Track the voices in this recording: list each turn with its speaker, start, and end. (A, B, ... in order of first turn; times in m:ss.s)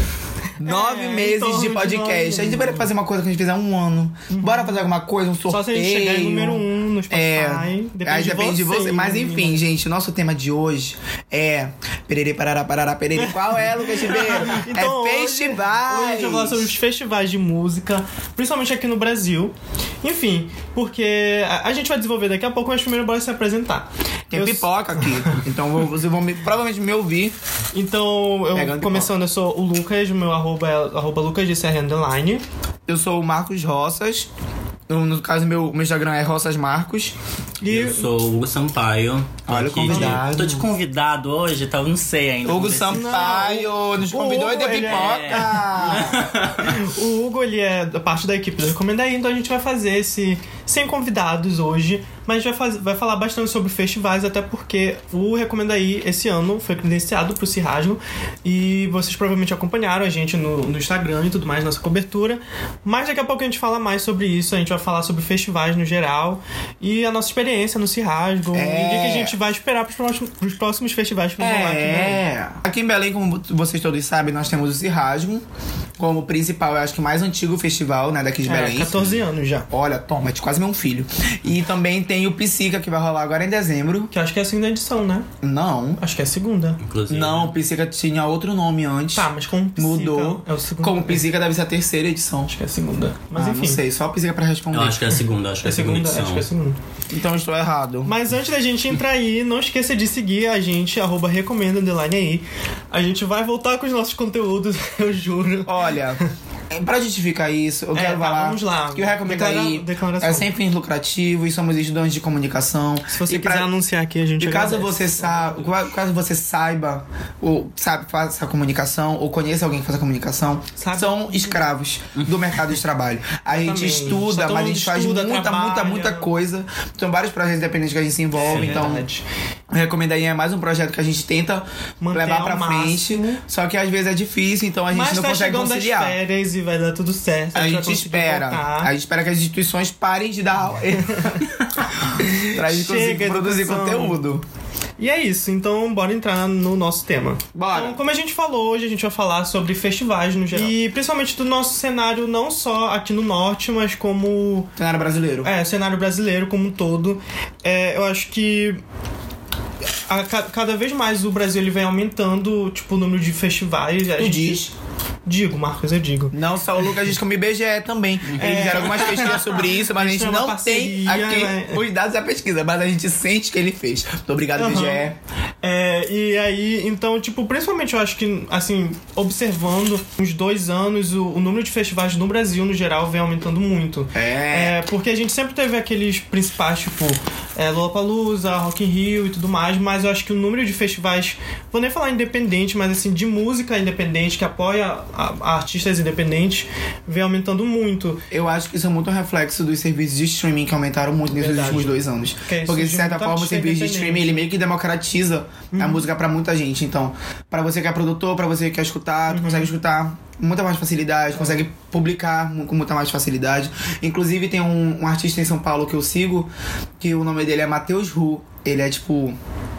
0:00.6-0:16.7 A
0:00.6-0:02.9 B
0:04.3-0:04.7 B
0:05.5-0:09.6 B
0:14.1-0:25.4 B
0:24.3-0:27.4 A
0:27.7-0:32.4 B
0:28.5-0:29.1 A
0:32.9-0:34.3 A
0:34.9-0:37.2 A
0:37.6-0:38.1 B
0:37.7-0:43.3 C
0:39.5-0:40.7 A
0:39.9-0:40.2 B
0:42.4-0:46.3 A
0:42.9-1:12.2 B
0:44.8-0:46.7 C
1:08.5-1:09.3 A
1:11.4-1:15.4 A
1:16.0-1:19.0 A
1:18.4-1:19.7 B
1:19.7-1:24.1 A
1:24.1-1:25.3 B
1:25.4-1:26.0 A
1:26.0-1:26.8 B
1:26.8-1:27.5 C
1:27.1-1:32.5 A
1:29.1-1:31.2 B
1:32.5-1:33.8 B
1:33.4-1:35.0 A
1:34.7-1:36.4 C
1:35.6-1:36.8 B
1:37.1-1:38.1 A
1:38.0-1:46.2 B
1:45.6-1:53.7 A
1:47.9-1:50.5 B
1:53.1-1:55.7 B
1:54.4-2:09.0 A
2:00.8-2:01.6 B
2:02.2-2:02.6 C
2:03.5-2:06.3 B
2:08.4-2:09.2 B
2:08.5-2:08.9 C
2:09.7-2:16.2 A
2:12.0-2:13.4 B
2:14.9-2:18.9 B
2:17.5-2:24.4 A
2:21.0-2:21.5 B
2:22.1-2:24.2 B
2:25.0-2:34.7 B
2:27.5-2:28.0 A
2:34.8-2:35.5 A
2:35.4-2:38.8 B
2:40.1-2:44.7 B
2:44.2-2:44.7 A
2:45.2-2:46.4 B
2:46.3-2:55.2 A
2:48.3-2:48.7 C
2:48.3-2:51.8 B
2:54.6-2:55.0 B
2:55.6-3:18.2 B
3:04.1-3:04.8 A
3:18.3-3:39.4 A
3:21.4-3:24.4 B
3:25.7-3:26.0 B
3:29.3-3:29.7 B